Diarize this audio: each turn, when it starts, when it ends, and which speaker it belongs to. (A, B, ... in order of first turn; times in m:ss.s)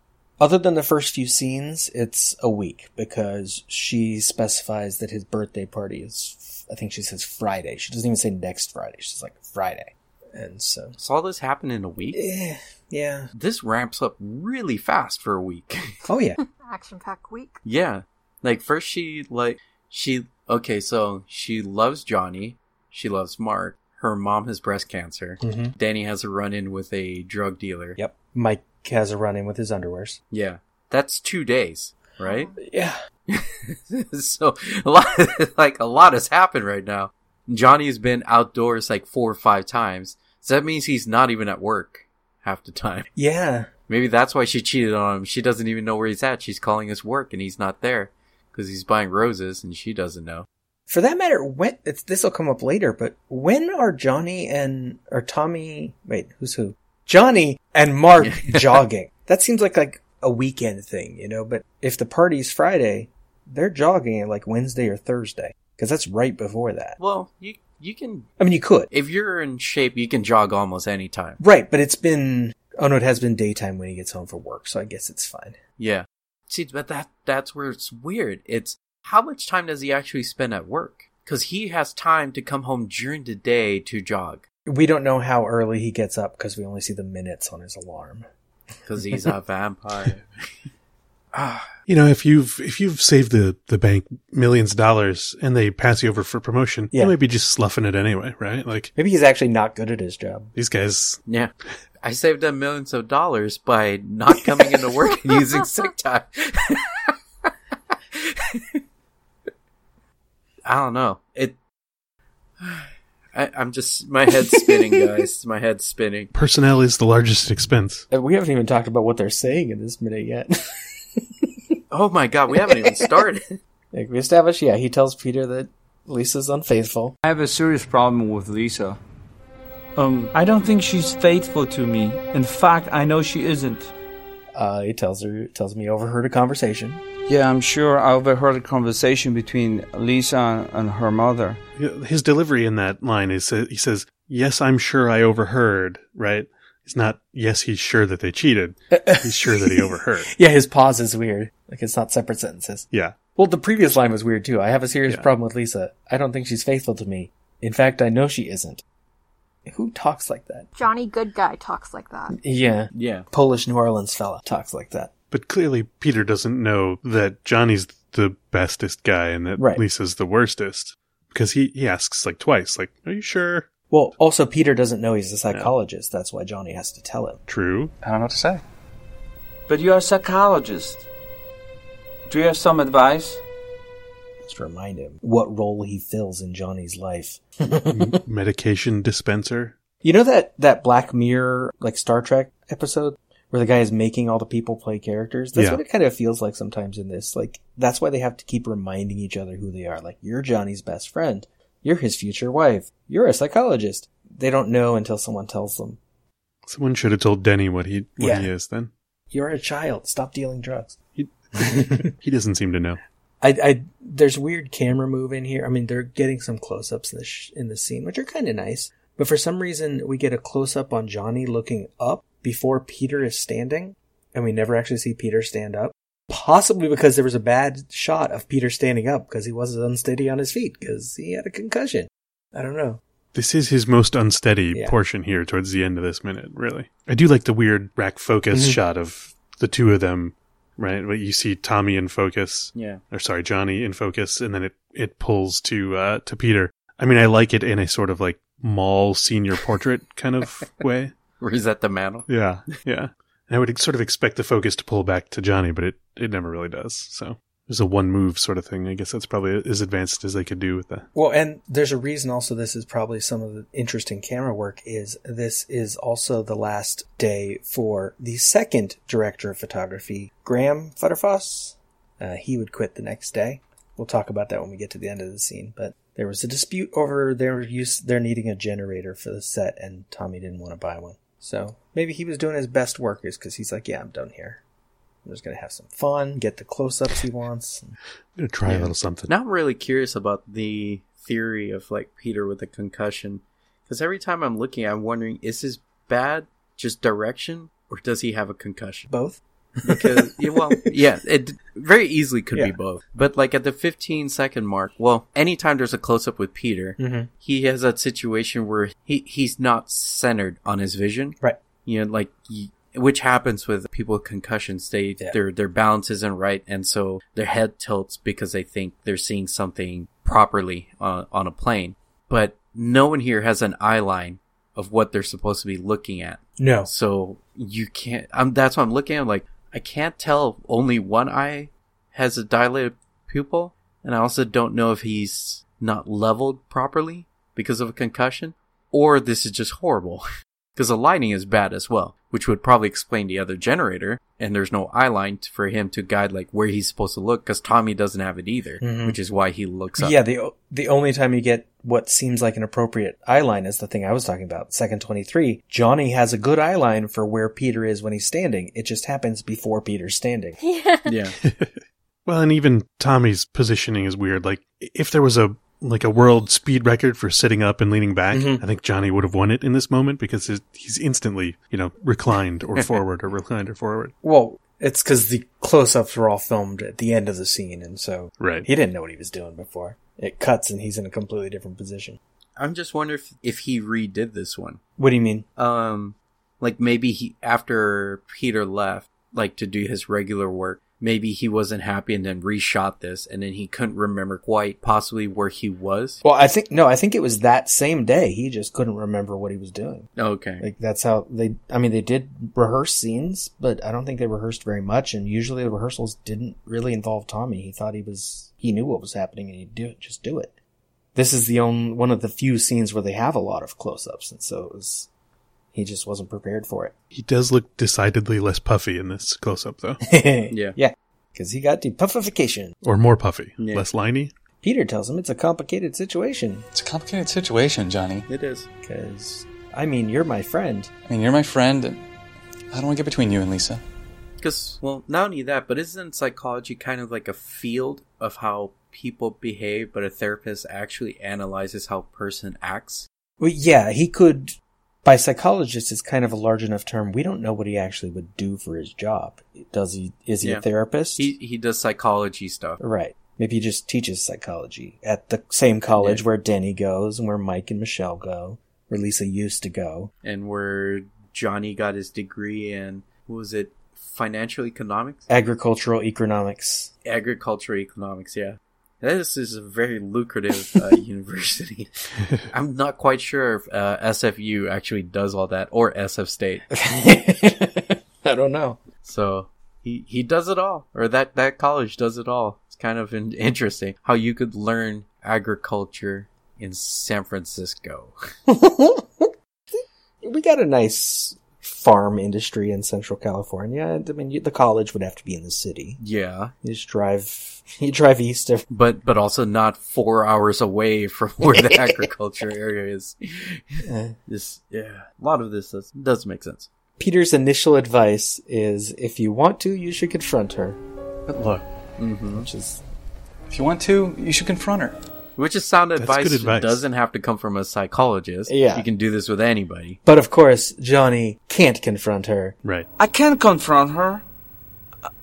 0:00.4-0:11.0 A
0:11.0-0:12.2 B
0:12.1-0:13.3 A
0:13.3-0:15.9 B
0:16.1-0:16.4 A
0:16.4-0:17.6 C
0:17.6-0:28.0 B
0:25.4-0:25.7 A
0:28.0-0:30.2 A
0:30.3-0:32.5 B
0:32.2-0:32.5 C
0:32.6-0:33.0 A
0:33.3-0:43.1 B
0:43.2-0:43.7 A
0:43.9-0:50.5 B
0:50.9-1:07.0 A
0:58.2-0:58.8 B
1:07.0-1:08.3 B
1:08.4-1:08.9 A
1:08.9-1:11.4 B
1:11.4-1:15.6 A
1:15.8-1:24.4 B
1:24.7-1:28.3 A
1:28.9-1:30.3 B
1:31.3-1:31.7 B
1:31.9-1:38.9 D
1:39.0-1:40.5 A
1:40.6-1:41.2 D
1:41.3-1:47.1 B
1:48.1-1:48.7 B
1:50.6-1:51.6 B
1:52.6-1:56.3 B
1:56.3-1:58.0 D
1:58.1-2:01.5 A
2:01.9-2:03.6 B
2:03.9-2:07.2 A
2:07.2-2:09.0 E
2:10.0-2:13.9 E
2:14.5-2:17.0 A
2:17.3-2:21.6 E
2:21.8-2:30.3 D
2:28.9-2:38.8 A
2:39.7-2:40.7 A
2:40.8-2:42.4 C
2:42.3-2:45.1 A
2:42.9-2:43.3 B
2:45.3-2:53.7 D
2:49.6-2:49.8 A
2:53.9-2:57.4 A
2:57.5-2:57.9 D
2:58.0-2:58.6 F
2:59.7-3:01.1 E
3:02.3-3:03.4 E
3:04.4-3:08.2 A
3:07.9-3:09.8 D
3:10.0-3:26.0 A
3:15.6-3:15.8 D
3:26.7-3:28.9 D
3:28.2-3:28.5 A
3:29.3-3:31.0 A
3:31.2-3:33.0 D
3:31.6-3:32.1 A
3:33.4-3:53.0 A
3:53.3-4:11.1 D
3:58.5-3:58.8 A
4:02.8-4:03.0 B
4:11.4-4:12.7 B
4:12.3-4:21.1 D
4:21.2-4:44.6 A
4:45.2-4:48.0 A
4:48.4-4:49.3 D
4:48.6-4:59.1 B
4:59.1-5:00.8 A
4:59.8-5:50.2 B
5:07.0-5:07.3 A
5:26.6-5:26.9 A
5:48.8-5:49.2 A
5:50.0-6:00.6 A
6:00.6-6:01.1 C
6:01.1-6:01.4 B
6:01.4-6:01.7 D
6:02.3-6:14.1 D
6:08.3-6:08.6 A
6:14.2-6:22.2 A
6:18.4-6:18.7 D
6:22.6-6:24.8 B
6:25.0-6:25.5 A
6:25.6-6:36.2 B
6:36.2-6:50.5 A
6:40.2-6:40.7 B
6:51.2-6:55.1 A
6:55.7-6:56.9 A
6:57.1-7:00.0 D
7:00.0-7:02.7 A
7:00.5-7:00.8 B
7:02.8-7:04.3 D
7:03.6-7:03.9 B
7:04.6-7:06.7 A
7:06.7-7:08.3 F
7:08.3-7:08.7 B
7:08.8-7:10.9 A
7:11.1-7:12.0 F
7:12.7-7:13.8 F
7:14.4-7:23.1 B
7:23.4-7:31.3 A
7:31.2-7:32.8 B
7:32.8-7:40.1 A
7:36.0-7:36.2 B
7:40.2-7:45.2 B
7:45.3-7:46.9 A
7:47.0-7:51.9 B
7:52.5-7:56.7 B
7:56.7-7:58.8 A
7:59.0-8:08.2 B
8:08.5-8:16.0 A
8:16.0-8:16.5 B
8:16.6-8:18.7 A
8:18.7-8:26.7 B
8:23.8-8:24.2 A
8:27.0-8:30.8 A
8:31.3-8:31.7 F
8:32.0-8:32.5 B
8:32.4-8:32.8 A
8:33.5-8:35.0 F
8:35.4-8:40.0 B
8:36.0-8:36.8 D
8:38.5-8:38.9 A
8:40.0-8:42.6 A
8:43.0-8:44.2 E